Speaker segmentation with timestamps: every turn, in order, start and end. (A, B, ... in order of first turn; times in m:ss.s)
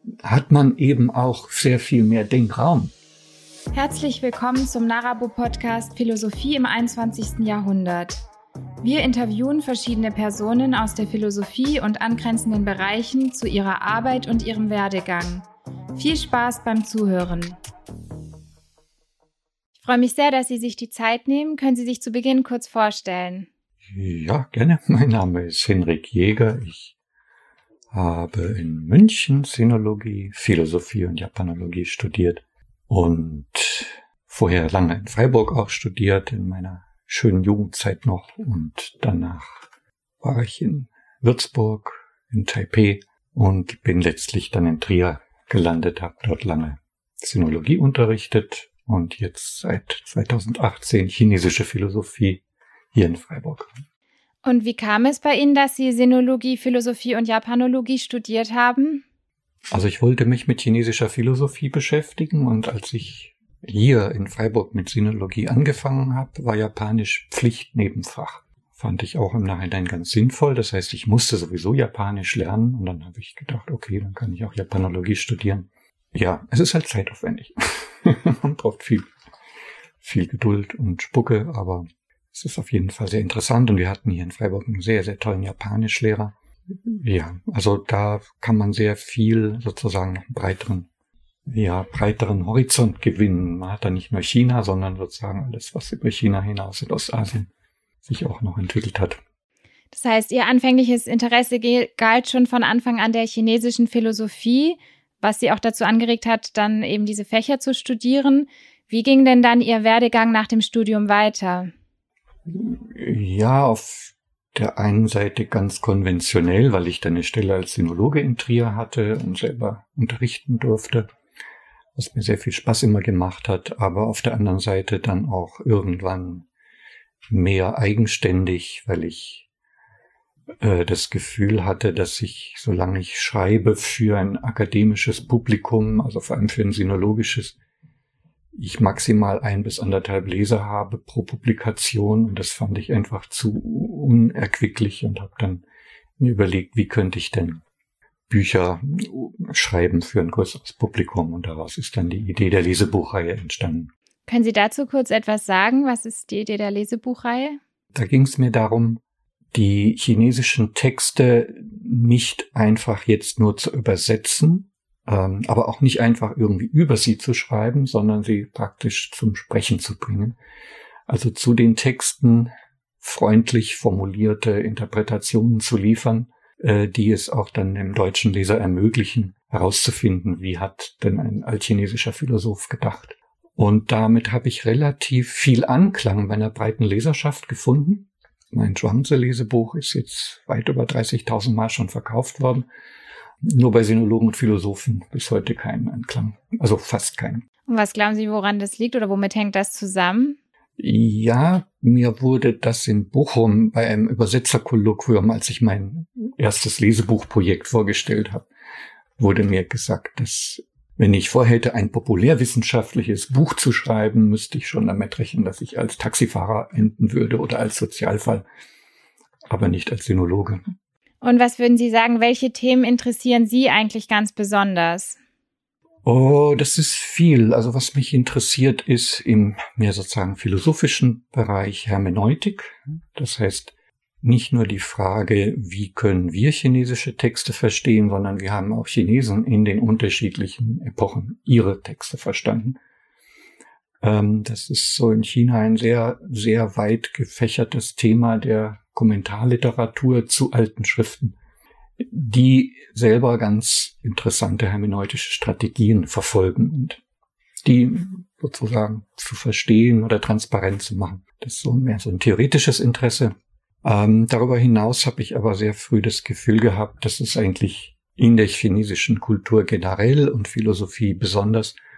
0:00.2-0:02.9 A
0:03.7-0:08.2 B
0:08.8-0:17.6 B
0:19.8-0:23.5 B
0:23.9-0:26.9 A
0:27.9-0:39.6 A
0:40.2-0:52.4 A
0:52.9-0:53.7 A
0:54.4-0:59.0 B
0:59.7-1:19.0 A
1:20.0-1:26.3 A
1:26.8-1:30.9 A
1:31.5-1:37.5 A
1:38.0-1:39.2 A
1:39.9-1:51.7 B
1:52.5-2:01.1 A
2:02.0-2:06.5 A
2:07.3-2:09.5 A
2:10.6-2:17.6 A
2:18.5-2:25.6 A
2:26.2-2:27.6 A
2:28.3-2:33.9 A
2:34.3-2:37.6 B
2:37.9-2:39.0 A
2:39.5-2:50.4 A
2:51.1-3:12.7 A
3:13.4-3:17.4 A
3:17.7-3:20.4 B
3:20.8-3:28.5 A
3:29.2-3:38.4 A
3:39.5-3:40.7 A
3:41.2-3:45.2 B
3:46.0-4:02.8 A
4:04.0-4:11.4 A
4:12.0-4:17.0 A
4:17.6-4:31.8 A